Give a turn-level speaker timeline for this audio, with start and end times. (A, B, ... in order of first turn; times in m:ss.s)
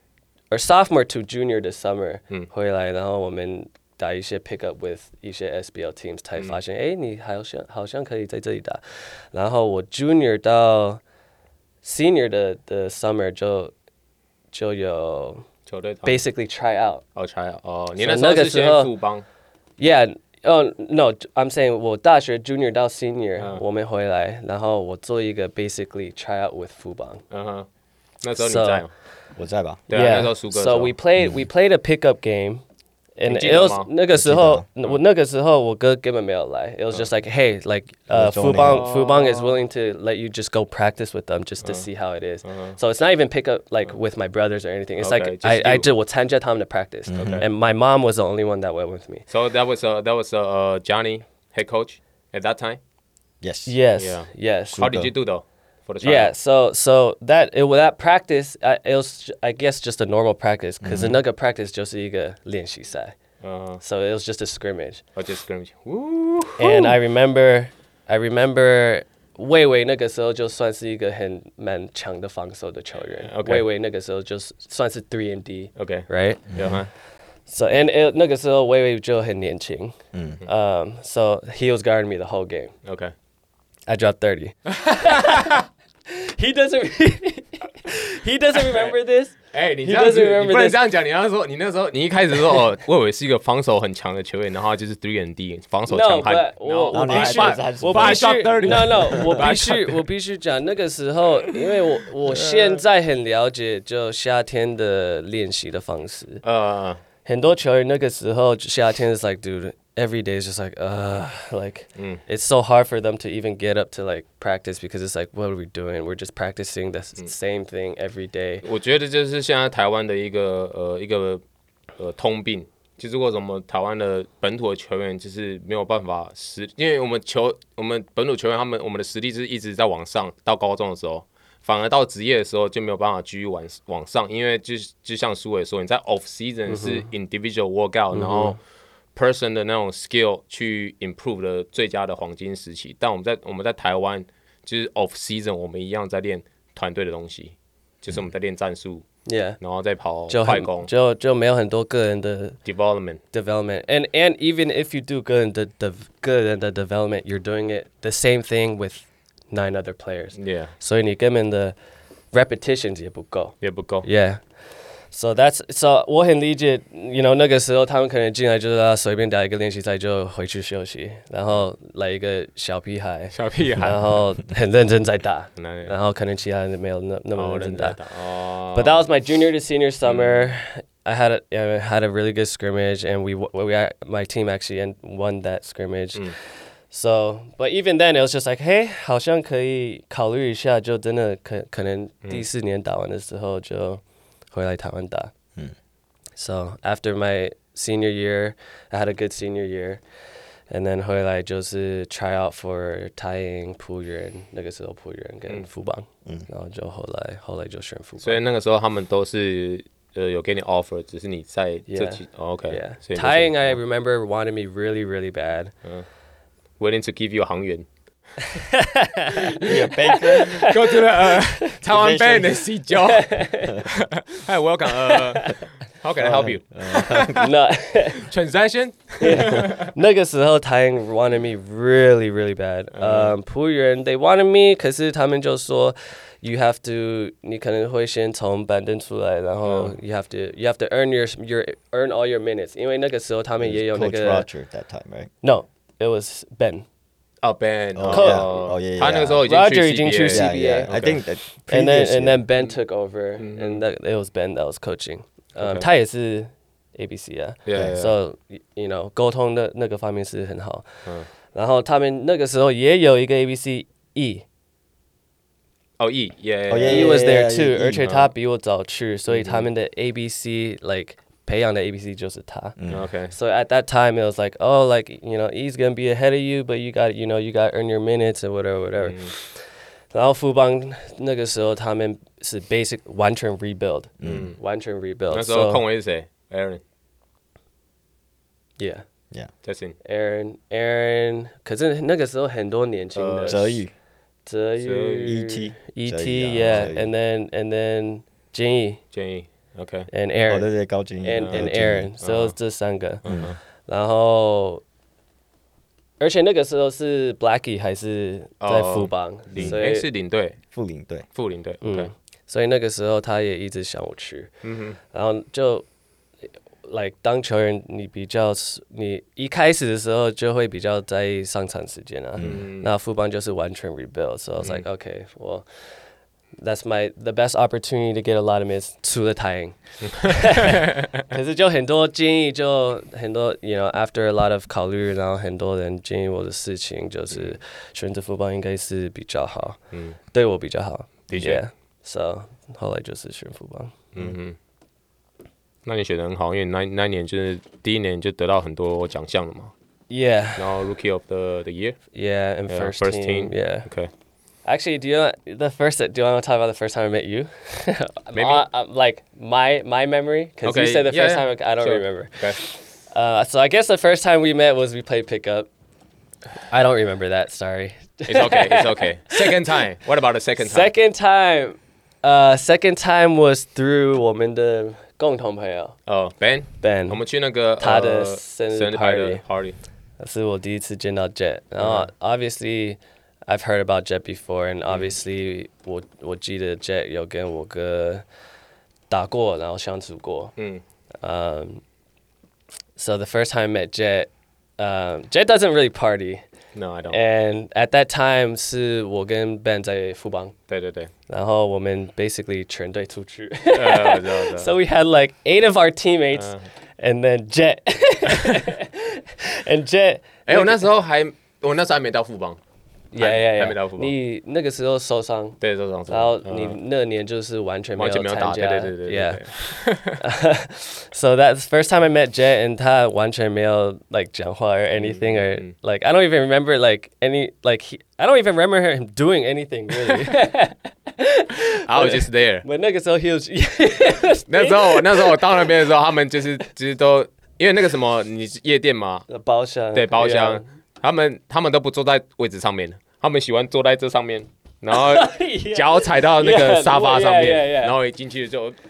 0:00.5-0:11.0 A
0:11.8-0:13.7 A
0:14.5-0:15.4 A
0:15.7-0:16.2 B
0:16.0-0:17.0 A
0:17.2-0:19.2 B
0:18.0-0:18.9 A
0:19.8-0:27.2 A
0:23.4-0:23.6 B
0:27.3-0:27.7 B
0:28.2-0:28.9 B
0:28.4-0:28.8 A
0:29.3-0:29.8 C
0:29.9-0:30.9 B
0:29.9-0:32.6 A
0:33.2-0:49.2 A
0:33.3-0:33.9 B
0:34.1-0:34.6 C
0:38.1-0:38.9 C
0:38.6-0:39.6 B
0:42.4-0:42.8 B
0:45.0-0:45.9 B
0:47.1-0:47.4 C
0:47.2-0:47.5 B
0:49.3-0:52.8 B
0:53.4-0:53.7 C
0:53.6-0:54.9 A
0:54.0-0:56.3 B
0:54.7-0:55.1 C
0:56.0-1:03.1 A
1:00.8-1:01.2 C
1:03.4-1:03.8 B
1:03.8-1:05.0 A
1:05.2-1:07.0 B
1:06.6-1:16.5 A
1:13.2-1:13.7 B
1:15.8-1:16.9 B
1:16.5-1:16.8 C
1:17.5-1:22.7 A
1:20.1-1:20.4 C
1:22.8-1:23.1 B
1:23.9-1:30.8 A
1:24.7-1:25.6 B
1:28.6-1:28.9 B
1:29.5-1:40.0 B
1:35.9-1:46.4 A
1:36.9-1:39.5 C
1:42.2-1:42.8 B
1:46.4-1:47.0 B
1:47.2-1:58.6 A
1:52.0-1:52.2 B
1:58.6-2:01.4 B
2:02.0-2:18.6 B
2:16.7-2:17.1 A
2:18.1-2:18.6 A
2:19.1-2:29.0 B
2:29.2-2:29.6 A
2:29.6-2:30.9 B
2:30.3-2:32.6 A
2:32.6-2:33.2 B
2:33.3-2:41.7 A
2:40.3-2:40.7 B
2:42.3-2:44.4 A
2:43.6-2:44.1 B
2:45.1-2:58.0 A
2:53.3-2:54.2 B
2:55.6-2:55.9 B
2:57.4-2:59.0 B
2:58.7-3:06.3 A
3:00.0-3:00.5 B
3:06.9-3:15.3 A
3:16.4-3:20.0 A
3:20.7-3:28.4 A
3:28.2-3:33.8 B
3:31.9-3:35.7 A
3:36.8-3:37.8 B
3:38.4-3:41.7 A
3:39.3-3:47.5 B
3:39.6-3:40.7 C
3:41.8-3:42.6 C
3:42.9-3:43.8 A
3:45.0-3:45.6 A
3:46.2-3:47.5 C
3:47.1-3:48.3 A
3:48.2-3:49.9 B
3:49.2-4:04.5 A
3:52.9-3:53.4 B
3:59.6-4:00.0 B
4:03.6-4:05.3 C
4:05.4-4:06.8 A
4:07.4-4:11.2 B
4:07.9-4:09.4 C
4:08.1-4:08.5 A
4:09.4-4:10.9 A
4:10.3-4:12.4 C
4:11.6-4:24.4 A
4:13.4-4:13.8 B
4:15.6-4:15.9 B
4:17.6-4:18.1 B
4:26.0-4:27.2 B
4:26.7-4:28.0 C
4:26.9-4:32.8 A
4:28.0-4:28.3 B
4:29.3-4:29.7 B
4:32.8-4:33.0 C
4:32.9-4:33.3 B
4:33.3-4:45.8 A
4:39.0-4:39.3 B
4:44.2-4:44.5 C
4:44.2-4:44.6 B
4:45.3-4:46.8 B
4:48.8-4:49.0 A
4:49.6-4:50.0 B
4:50.0-4:53.8 A
4:53.1-4:53.7 B
4:53.4-4:53.9 C
4:54.4-4:59.0 A
4:54.8-4:55.3 B
4:55.2-4:57.1 C
4:59.1-5:00.1 B
5:00.1-5:00.7 A
5:00.5-5:02.1 C
5:01.2-5:03.2 A
5:02.2-5:02.5 B
5:03.2-5:03.6 B
5:03.2-5:03.5 C
5:03.8-5:04.8 A
5:06.2-5:10.1 A
5:08.6-5:10.6 B
5:10.7-5:11.3 C
5:11.3-5:12.1 B
5:11.8-5:14.5 A
5:14.6-5:15.0 B
5:15.1-5:15.8 A
5:16.8-5:25.6 A
5:22.4-5:22.7 C
5:22.4-5:22.9 B
5:26.6-5:39.8 A
5:30.2-5:31.1 B
5:39.9-5:40.2 B
5:40.3-5:44.0 A
5:41.3-5:41.6 B
5:44.1-5:44.6 B
5:45.8-5:49.7 B
5:50.1-5:50.8 A
5:50.6-5:52.0 B
5:52.1-5:53.9 A
5:52.7-5:54.1 B
5:54.6-6:05.7 A
5:58.3-5:58.6 B
6:00.6-6:02.6 B
6:06.7-6:09.7 A
6:08.3-6:10.9 B
6:10.6-6:16.0 A
6:16.1-6:19.8 B
6:16.8-6:17.2 A
6:17.8-6:19.4 A
6:20.2-6:28.2 A
6:21.8-6:22.1 B
6:24.9-6:25.2 B
6:29.1-6:30.5 A
6:30.6-6:30.8 B
6:31.2-6:31.8 A
6:33.0-6:36.4 A
6:36.7-6:37.2 B
6:37.1-6:40.5 A
6:40.7-6:41.1 B
6:41.3-6:50.9 A
6:43.7-6:44.7 B
6:46.3-6:46.7 B
6:50.5-6:52.6 B
6:53.1-6:55.6 A
6:53.2-6:54.1 B
6:55.6-6:56.8 B
6:56.1-7:15.6 A
6:58.0-7:00.2 B
7:05.0-7:05.7 B
7:11.9-7:12.6 B
7:14.5-7:19.2 B
7:19.3-7:20.6 A
7:19.9-7:28.8 B
7:24.9-7:28.0 A